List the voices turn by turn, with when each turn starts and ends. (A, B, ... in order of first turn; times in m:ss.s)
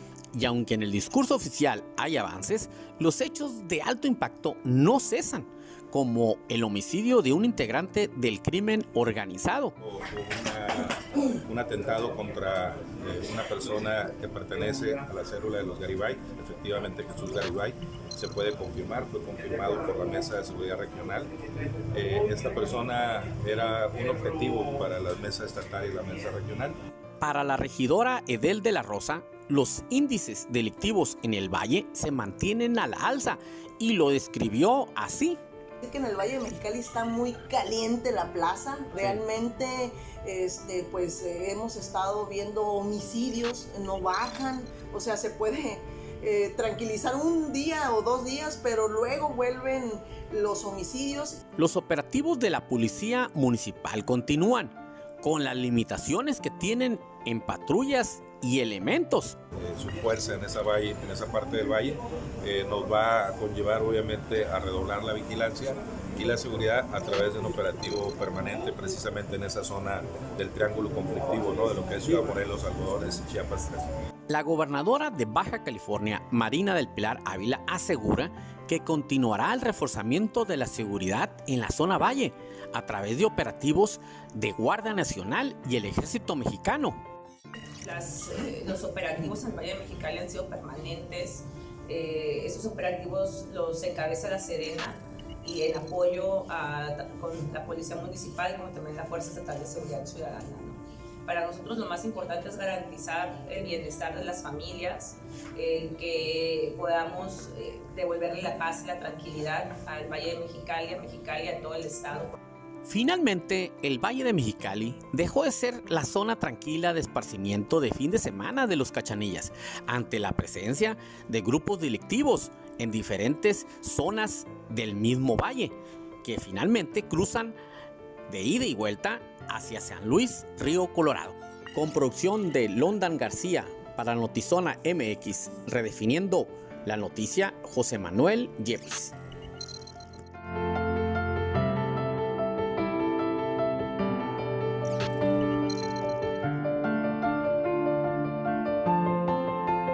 0:00.3-0:09.7 A
0:09.8-0:21.3 B
0:21.9-0:26.8 B
0:27.2-0:35.4 A
0:35.8-0:51.4 C
0:51.6-0:59.4 A
0:59.6-1:14.0 B
1:14.3-1:27.0 A
1:27.8-1:52.4 D
1:52.9-2:07.5 A
2:08.3-2:19.1 A